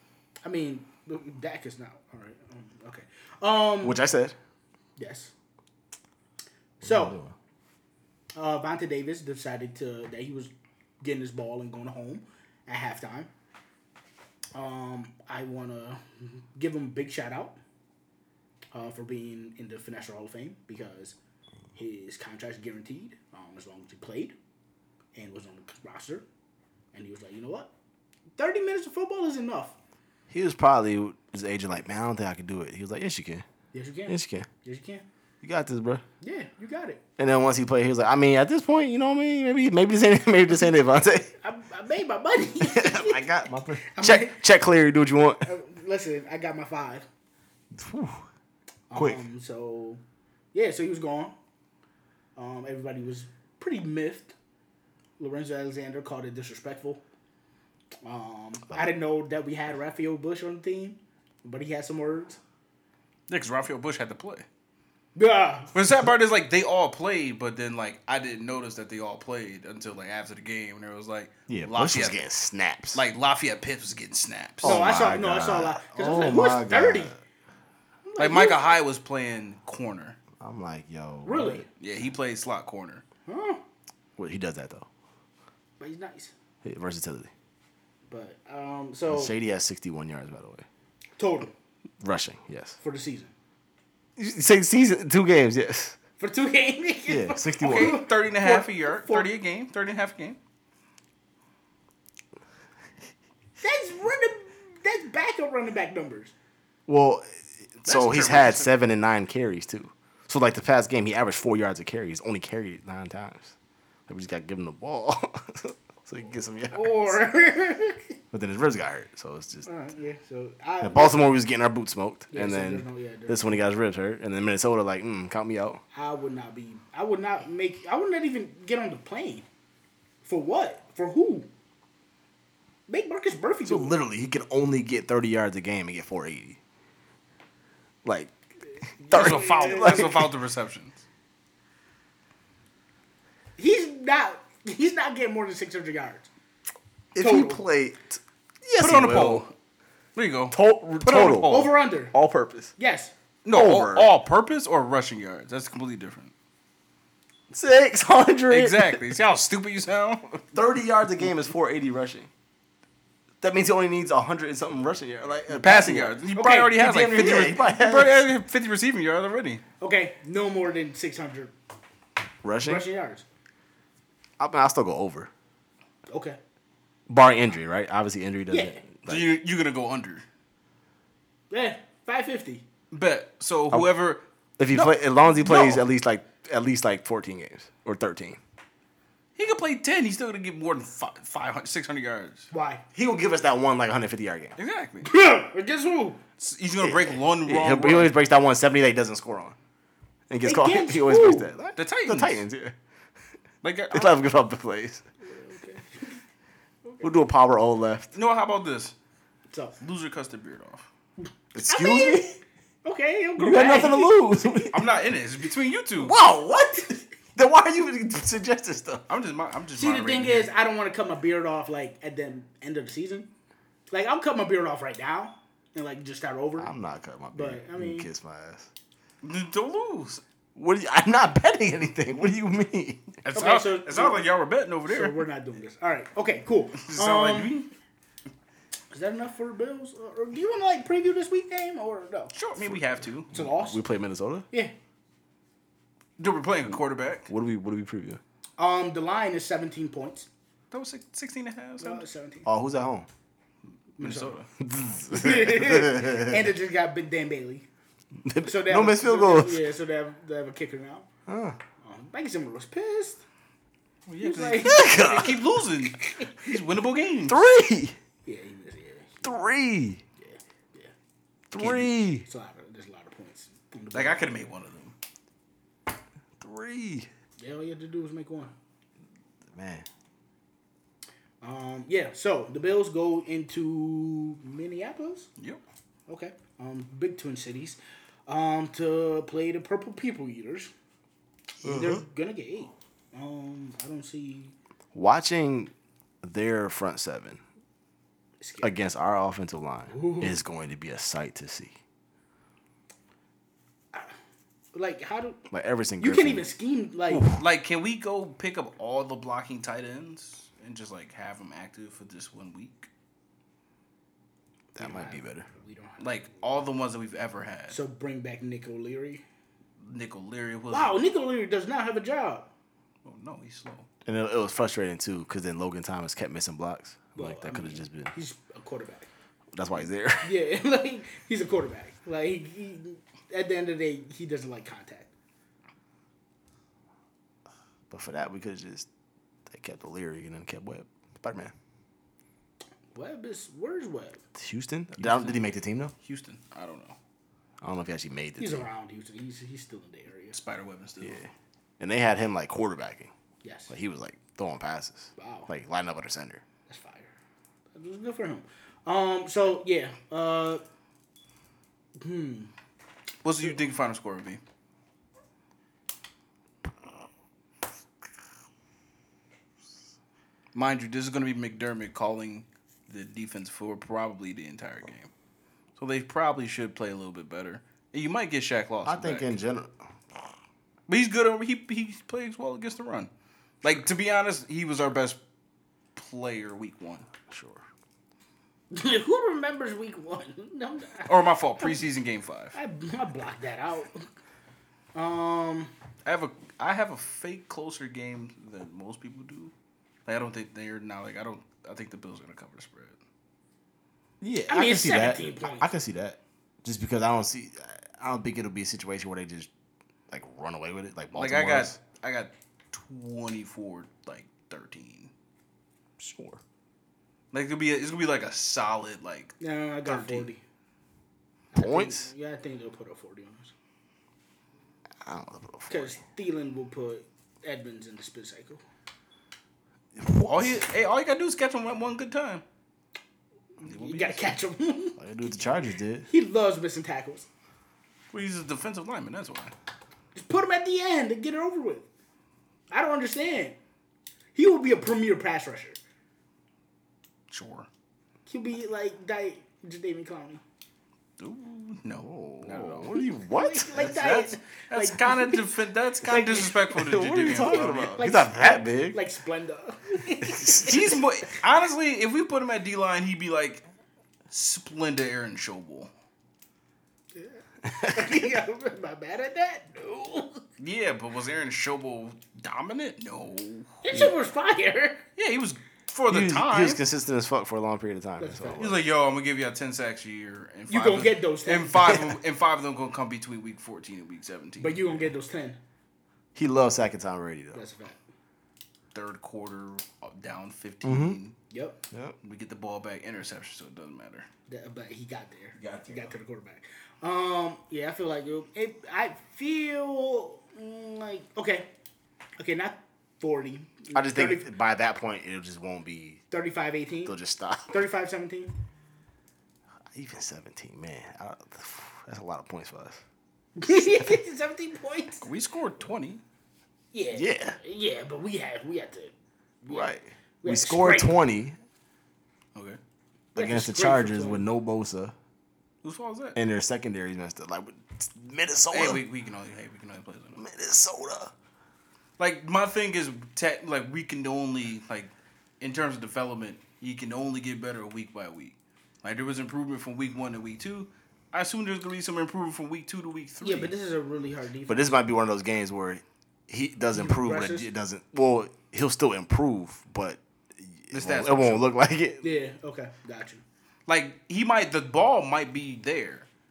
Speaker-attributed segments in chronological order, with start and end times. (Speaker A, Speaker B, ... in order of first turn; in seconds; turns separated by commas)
Speaker A: 0.4-4.0, Speaker B: 3.8-4.3, Speaker A: 5.0-5.3, Speaker A: 6.8-7.2, Speaker B: 6.8-7.3, Speaker A: 8.3-13.3, Speaker A: 14.5-17.6, Speaker A: 18.7-21.2, Speaker A: 21.7-24.4, Speaker A: 25.1-26.2, Speaker A: 26.9-27.7, Speaker A: 28.4-29.8, Speaker B: 30.3-33.4, Speaker A: 33.7-35.0, Speaker B: 34.1-34.5, Speaker B: 35.4-36.0, Speaker A: 36.2-37.0, Speaker B: 37.2-41.3, Speaker A: 41.4-43.3, Speaker B: 42.6-45.5, Speaker A: 43.8-44.4, Speaker A: 45.4-47.1, Speaker B: 47.7-48.2, Speaker A: 48.9-50.0, Speaker B: 48.9-49.2, Speaker A: 50.5-51.3, Speaker A: 52.4-54.3, Speaker A: 55.2-57.0, Speaker A: 58.0-62.4, Speaker C: 63.3-64.5, Speaker A: 65.2-65.7, Speaker C: 65.7-72.2, Speaker B: 71.5-73.0, Speaker C: 72.9-74.8, Speaker B: 74.6-77.2, Speaker A: 74.6-77.1, Speaker A: 78.0-78.8, Speaker C: 78.2-80.2, Speaker B: 80.4-81.7, Speaker A: 81.2-81.7, Speaker C: 81.8-83.0, Speaker A: 83.2-83.6, Speaker B: 84.2-84.9, Speaker A: 85.8-86.3, Speaker B: 86.6-87.3, Speaker A: 88.1-89.3, Speaker B: 89.1-90.6, Speaker A: 91.2-91.5, Speaker B: 92.0-92.8, Speaker A: 92.8-93.3, Speaker B: 94.2-96.0, Speaker A: 96.2-99.3, Speaker B: 97.1-98.0, Speaker C: 97.6-100.4, Speaker A: 103.6-106.3, Speaker B: 106.9-113.5, Speaker C: 107.8-108.7, Speaker B: 114.1-117.2, Speaker A: 116.7-118.2, Speaker B: 118.3-119.7, Speaker A: 119.6-121.3, Speaker B: 120.8-125.8, Speaker A: 122.3-123.6, Speaker A: 125.9-129.4, Speaker A: 130.2-131.5, Speaker A: 132.9-133.9, Speaker B: 133.7-136.6, Speaker B: 138.0-138.3, Speaker B: 139.0-140.3, Speaker A: 139.1-140.1, Speaker C: 139.1-141.0, Speaker A: 143.6-146.3, Speaker B: 147.1-149.5, Speaker A: 147.2-147.6, Speaker C: 148.8-149.5, Speaker C: 150.2-151.7, Speaker B: 150.5-152.7, Speaker A: 151.4-152.1, Speaker A: 152.8-153.1, Speaker C: 153.4-156.3, Speaker B: 153.5-154.1, Speaker B: 157.5-159.0, Speaker C: 158.5-160.4, Speaker B: 160.5-162.3, Speaker B: 163.4-168.2, Speaker C: 165.5-169.6, Speaker A: 166.3-167.5, Speaker A: 169.8-171.5, Speaker B: 172.4-172.8, Speaker A: 172.6-173.2, Speaker B: 174.4-175.3, Speaker A: 176.1-176.4, Speaker B: 177.1-179.3, Speaker A: 178.5-178.8, Speaker C: 179.1-180.2, Speaker A: 181.5-182.6, Speaker C: 182.9-185.8, Speaker B: 184.6-188.4, Speaker C: 189.3-192.5, Speaker A: 192.5-192.8, Speaker B: 192.9-194.6, Speaker C: 194.6-195.1, Speaker A: 195.0-196.2, Speaker C: 196.4-198.1, Speaker B: 196.8-199.6, Speaker B: 200.3-202.8, Speaker A: 200.4-201.5, Speaker C: 201.8-202.4, Speaker C: 203.6-204.2, Speaker B: 203.9-205.0, Speaker A: 205.2-206.2, Speaker B: 207.0-208.1, Speaker C: 208.1-208.9, Speaker A: 209.5-209.8, Speaker C: 209.8-210.9, Speaker B: 211.5-212.4, Speaker A: 211.7-214.7, Speaker B: 213.4-214.8, Speaker C: 214.7-216.1, Speaker B: 216.0-219.0, Speaker C: 219.1-220.5, Speaker A: 219.8-223.3, Speaker A: 223.9-226.7, Speaker B: 226.6-228.7, Speaker A: 227.3-228.1, Speaker C: 229.2-230.2, Speaker B: 230.6-233.1, Speaker C: 233.2-235.2, Speaker A: 233.3-234.2, Speaker A: 234.9-237.6, Speaker C: 236.7-237.7, Speaker A: 238.9-242.3, Speaker C: 242.3-243.3, Speaker B: 242.6-242.8, Speaker A: 243.3-243.8, Speaker B: 243.3-244.5, Speaker C: 246.2-247.3, Speaker B: 247.3-248.2, Speaker A: 248.6-250.3, Speaker C: 250.7-252.0, Speaker A: 251.8-252.5, Speaker B: 252.4-253.1, Speaker A: 254.0-254.4, Speaker C: 254.0-254.5, Speaker B: 254.6-256.4, Speaker A: 255.1-257.7, Speaker B: 258.2-259.6, Speaker A: 258.4-261.1, Speaker B: 261.3-261.6, Speaker A: 261.8-263.2, Speaker C: 264.1-267.4, Speaker A: 264.2-265.3, Speaker B: 264.6-265.4, Speaker A: 266.0-266.6, Speaker B: 267.3-267.9, Speaker A: 268.2-269.4, Speaker B: 269.2-270.0, Speaker A: 270.2-270.9, Speaker B: 271.5-272.2, Speaker A: 271.6-274.3, Speaker C: 273.9-274.9, Speaker B: 276.4-277.1, Speaker A: 277.4-278.5, Speaker B: 279.5-279.9, Speaker A: 281.4-285.3, Speaker A: 286.1-290.7, Speaker A: 291.6-294.5, Speaker B: 291.6-292.0, Speaker B: 294.9-297.4, Speaker A: 298.4-298.7, Speaker B: 298.6-301.8, Speaker A: 299.9-300.4, Speaker A: 304.7-305.4, Speaker B: 305.5-306.4, Speaker A: 306.0-307.2, Speaker B: 307.1-307.4, Speaker C: 307.3-312.9, Speaker B: 314.7-315.5, Speaker A: 314.8-316.4, Speaker C: 316.0-317.8, Speaker A: 317.7-319.2, Speaker C: 319.8-321.0, Speaker A: 320.7-322.5, Speaker C: 323.0-323.9, Speaker B: 324.0-328.1, Speaker A: 327.1-329.1, Speaker B: 329.5-330.3, Speaker A: 330.2-335.1, Speaker B: 337.9-338.9, Speaker B: 339.5-341.5, Speaker A: 342.9-344.2, Speaker B: 344.4-345.9, Speaker C: 345.0-345.4, Speaker C: 346.0-346.9, Speaker B: 347.6-348.6, Speaker A: 348.4-350.4, Speaker C: 350.3-351.2, Speaker B: 351.0-353.1, Speaker A: 353.4-353.7, Speaker B: 353.7-356.4, Speaker A: 355.2-355.5, Speaker A: 356.7-357.1, Speaker A: 357.7-360.6, Speaker A: 362.0-362.5, Speaker C: 363.2-364.4, Speaker C: 370.5-375.1, Speaker C: 375.8-379.3, Speaker B: 378.8-379.7, Speaker C: 380.9-383.1, Speaker C: 383.6-385.2, Speaker C: 385.9-387.1, Speaker B: 387.3-387.6, Speaker A: 388.7-391.8, Speaker C: 391.1-392.6, Speaker A: 392.5-394.1, Speaker A: 394.9-395.7, Speaker C: 396.0-399.5, Speaker C: 400.1-403.0, Speaker B: 404.2-409.5, Speaker A: 404.5-405.7, Speaker B: 410.1-411.8, Speaker C: 411.1-415.1, Speaker B: 416.0-416.4, Speaker C: 417.3-420.3, Speaker A: 419.4-420.4, Speaker A: 421.5-423.5, Speaker B: 421.5-422.1, Speaker B: 425.0-426.0, Speaker A: 425.7-428.6, Speaker B: 429.9-430.6, Speaker C: 430.1-432.4, Speaker A: 433.6-435.0, Speaker C: 433.6-434.4, Speaker B: 435.0-436.1, Speaker A: 436.1-437.3, Speaker C: 438.1-439.5, Speaker A: 440.1-441.9, Speaker A: 442.7-443.6, Speaker A: 444.3-445.8, Speaker C: 447.3-447.7, Speaker A: 448.2-450.4, Speaker C: 451.2-452.9, Speaker B: 452.0-453.9, Speaker A: 453.3-456.7, Speaker C: 453.7-458.0, Speaker B: 456.7-459.0, Speaker A: 457.9-461.0, Speaker B: 460.2-460.9, Speaker C: 460.6-463.6, Speaker C: 464.3-465.9, Speaker A: 467.1-470.4, Speaker B: 467.7-468.2, Speaker C: 470.6-473.8, Speaker A: 473.8-475.0, Speaker C: 475.2-476.8, Speaker B: 476.1-478.8, Speaker A: 478.2-478.7, Speaker C: 478.6-485.1, Speaker A: 480.7-482.0, Speaker A: 484.6-485.6, Speaker B: 486.3-487.6, Speaker A: 487.5-488.0, Speaker C: 488.9-491.3, Speaker B: 490.8-491.2, Speaker A: 491.5-491.8, Speaker C: 492.2-494.3, Speaker A: 494.5-501.7, Speaker C: 495.6-495.9, Speaker A: 502.4-504.5, Speaker B: 503.9-506.2, Speaker A: 506.3-507.1, Speaker B: 507.1-507.8, Speaker A: 507.7-508.5, Speaker B: 509.9-513.0, Speaker A: 513.5-515.3, Speaker C: 515.2-516.2, Speaker A: 516.9-521.2, Speaker B: 517.1-517.6, Speaker B: 519.7-521.6, Speaker A: 523.3-524.5, Speaker B: 523.4-525.1, Speaker C: 525.8-526.4, Speaker B: 526.4-529.0, Speaker C: 528.7-530.4, Speaker B: 530.4-531.3, Speaker C: 532.2-543.7, Speaker A: 543.4-545.0, Speaker B: 544.7-552.2, Speaker A: 546.9-547.7, Speaker C: 550.9-551.6, Speaker A: 552.2-553.4, Speaker C: 553.9-556.3